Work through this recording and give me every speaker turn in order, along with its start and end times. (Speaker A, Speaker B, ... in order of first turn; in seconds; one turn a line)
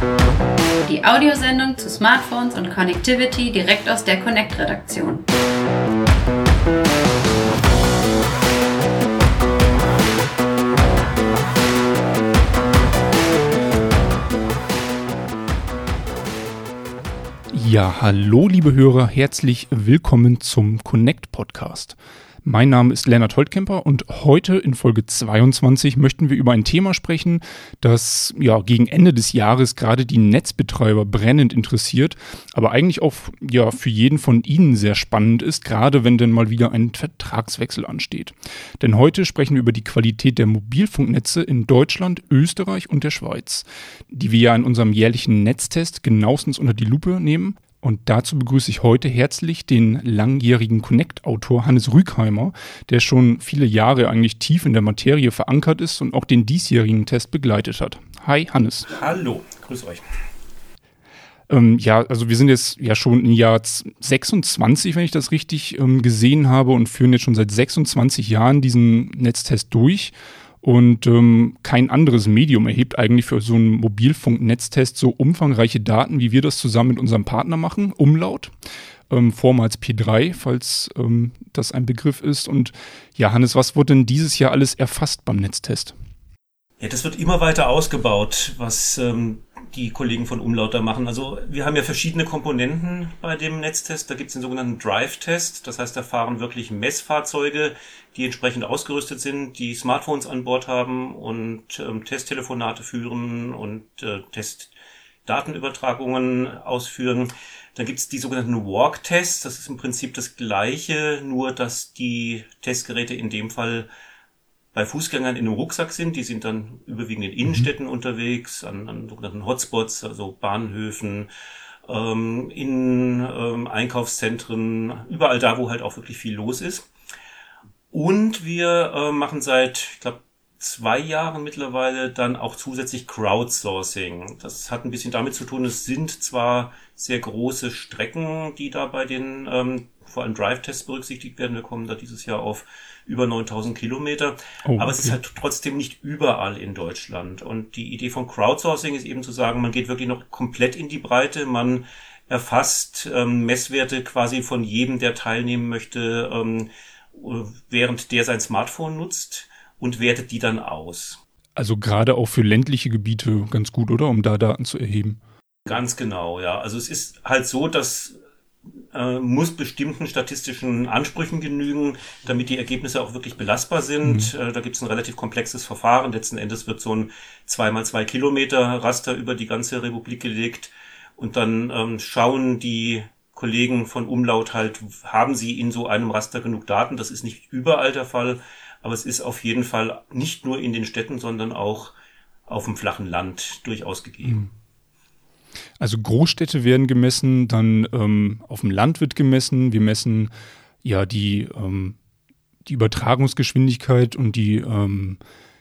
Speaker A: 0.8-5.2
Speaker B: 17.5-58.9
Speaker C: 58.9-60.0
Speaker B: 61.5-78.5
Speaker B: 79.1-86.0
Speaker C: 86.8-104.7
Speaker C: 105.3-113.9
Speaker C: 114.7-121.3
Speaker C: 121.9-126.9
Speaker C: 127.9-161.2
Speaker B: 144.7-145.2
Speaker B: 161.6-165.2
Speaker C: 165.7-168.2
Speaker C: 168.9-191.9
Speaker B: 174.0-174.3
Speaker C: 192.5-194.5
Speaker B: 195.8-200.3
Speaker B: 200.8-202.0
Speaker B: 202.7-205.2